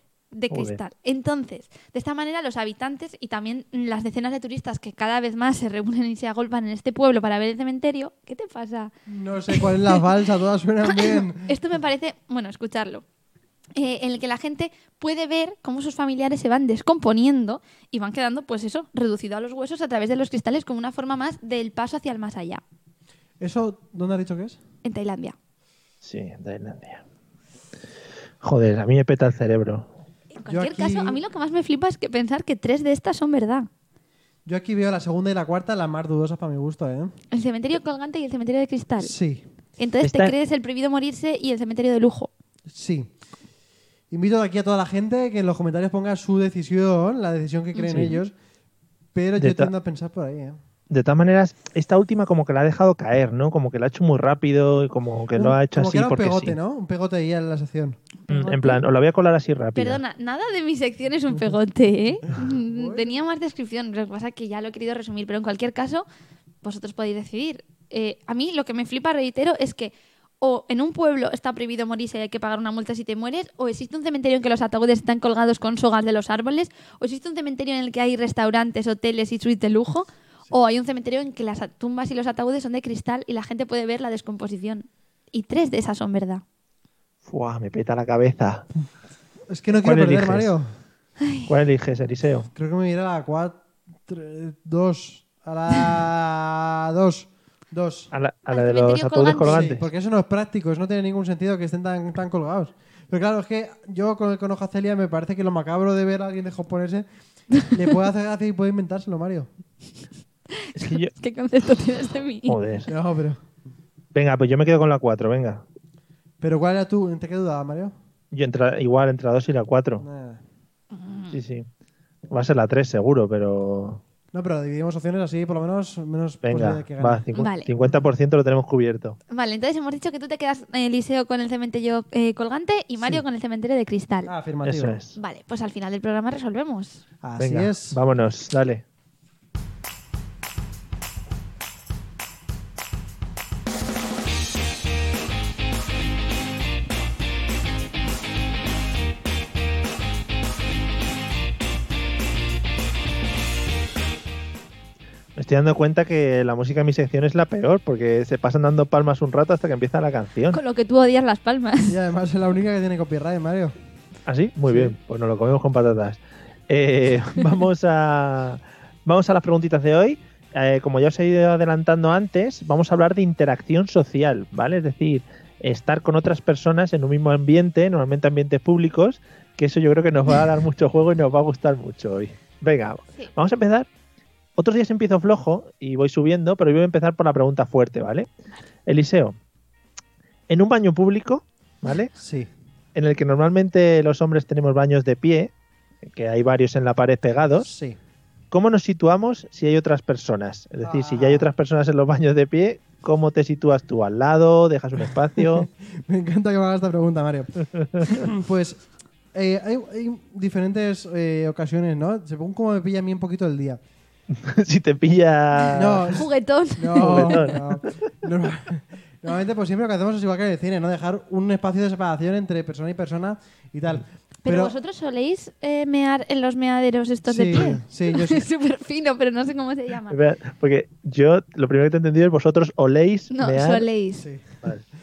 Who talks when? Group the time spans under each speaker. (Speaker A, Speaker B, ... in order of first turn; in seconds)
Speaker A: 0.3-8.9, 10.9-13.0, 13.8-22.6, 24.8-25.4, 30.4-33.7, 37.3-39.1, 39.8-42.3, 47.8-48.2, 58.2-58.8, 59.8-66.0, 66.6-86.4, 91.2-91.5, 98.5-99.7, 110.6-112.6, 120.9-121.4, 127.3-127.7, 129.3-134.3, 135.2-137.0, 160.5-161.9, 216.1-217.5, 224.4-230.2, 233.3-234.2
Speaker B: 0.5-0.8, 26.0-27.0, 28.4-29.9, 40.0-40.4, 47.9-48.2, 49.4-49.7, 50.9-56.6, 58.3-60.0, 87.2-88.7, 89.8-90.5, 91.5-92.5, 98.1-99.9, 110.8-111.1, 112.5-112.9, 114.1-115.6, 118.3-120.1, 121.3-121.7, 122.3-124.0, 126.4-129.2, 134.6-135.2, 137.4-138.8, 155.4-160.6, 164.3-183.9, 184.6-188.3, 188.9-189.3, 190.5-192.1, 192.9-195.5, 196.0-197.7, 198.5-205.7, 207.8-208.2, 214.3-216.2, 216.9-217.7, 230.1-233.9
Speaker C: 9.1-11.5, 23.4-24.6, 30.5-31.2, 34.5-37.1, 39.0-39.4, 42.7-43.1, 44.1-48.3, 49.1-50.6, 55.4-58.0, 62.4-63.2, 89.5-90.7, 92.5-98.1, 99.4-109.5, 112.9-113.4, 116.4-117.9, 120.0-120.4, 124.3-127.2, 134.2-135.0, 137.2-138.0, 161.9-163.7, 192.2-192.5, 197.6-198.0, 200.8-201.5, 205.4-208.8, 209.3-213.8, 215.7-224.8, 227.3-228.4, 234.2-234.7